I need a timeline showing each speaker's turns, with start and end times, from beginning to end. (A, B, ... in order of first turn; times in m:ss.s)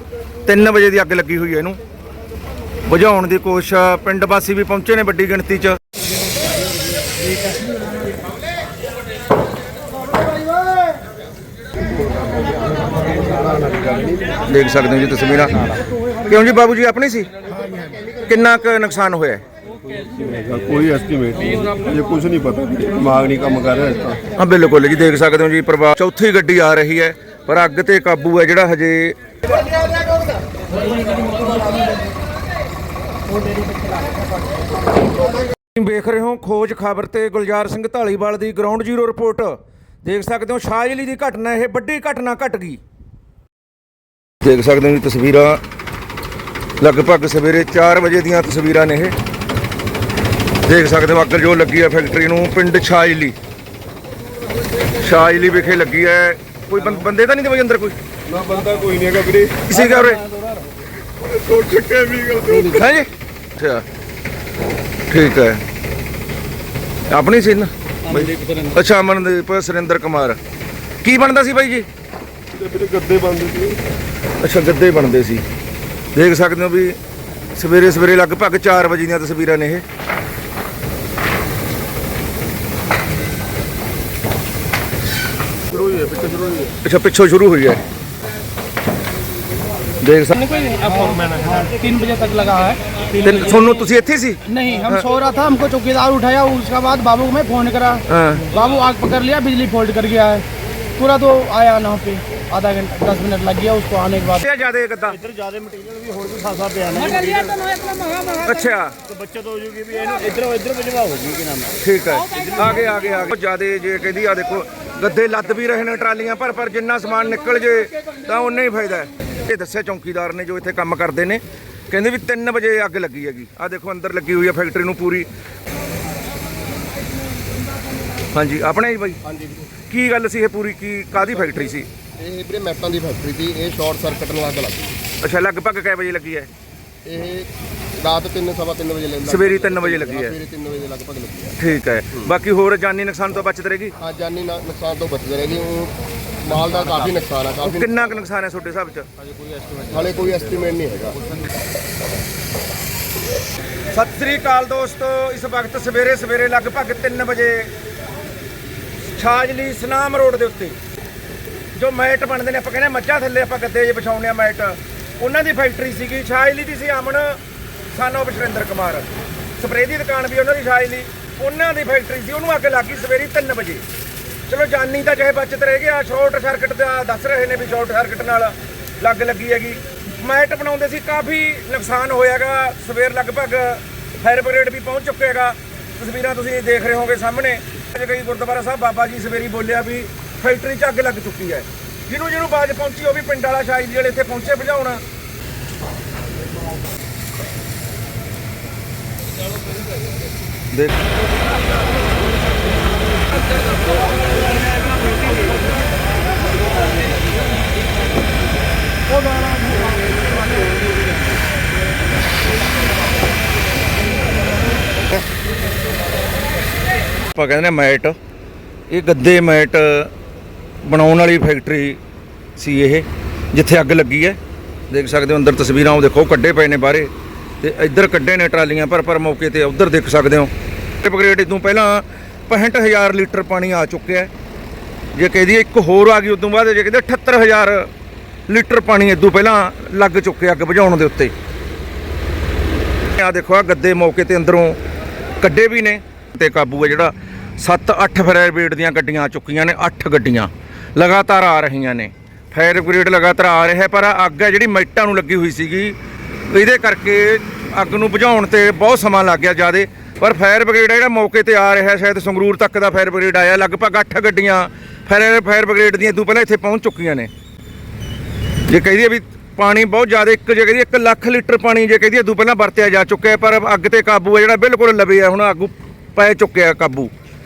0:00.4-0:01.8 A
0:02.8-0:05.8 A
0:13.5-0:14.1 B
0:14.4-0:15.6 A
0:16.3-0:17.3 A
0:18.3-0:19.4 A
0:20.2-0:24.2 C
0:24.4-0:29.3 A
0:35.7-0:42.8 A
0:44.4-0:45.6 A
0:46.8-0:49.1 A
0:50.6-0:53.3 A
0:54.9-0:58.0 A
0:58.3-0:59.7 C
0:59.6-1:00.2 A
1:01.3-1:02.8 C
1:01.5-1:03.8 A
1:05.1-1:05.6 A
1:07.1-1:10.4 A
1:11.0-1:11.9 A
1:12.5-1:13.8 C
1:14.4-1:15.4 A
1:16.1-1:17.0 A
1:17.5-1:19.8 A
1:25.7-1:26.7 C
1:26.8-1:27.8 A
1:30.0-1:30.4 A
1:30.4-1:33.0 D
1:33.1-1:35.1 A
1:34.5-1:40.4 D
1:38.1-1:38.5 A
1:41.0-1:44.4 D
1:44.3-1:45.2 A
1:45.2-1:47.5 E
1:47.2-1:48.3 D
1:48.4-1:49.0 A
1:49.1-1:51.7 E
1:51.8-2:05.3 A
2:08.3-2:09.2 A
2:09.2-2:09.7 B
2:09.8-2:11.9 A
2:12.2-2:15.0 B
2:15.2-2:16.5 A
2:17.0-2:21.6 B
2:19.2-2:20.4 A
2:21.5-2:24.0 A
2:24.0-2:28.2 B
2:27.6-2:29.1 A
2:29.8-2:31.2 B
2:33.9-2:37.7 A
2:39.1-2:40.8 A
2:41.7-2:47.4 A
2:47.9-2:53.8 A
2:54.5-3:15.0 A
3:20.7-3:21.0 A
3:37.3-3:38.2 A
3:38.9-3:40.1 A
3:40.8-3:42.0 A
3:42.6-3:44.4 A
3:44.9-3:54.3 A
3:55.1-3:57.9 A
3:58.5-4:01.3 A
4:03.1-4:04.8 A
4:05.4-4:16.0 A
4:16.5-4:27.3 A
4:28.7-4:37.1 A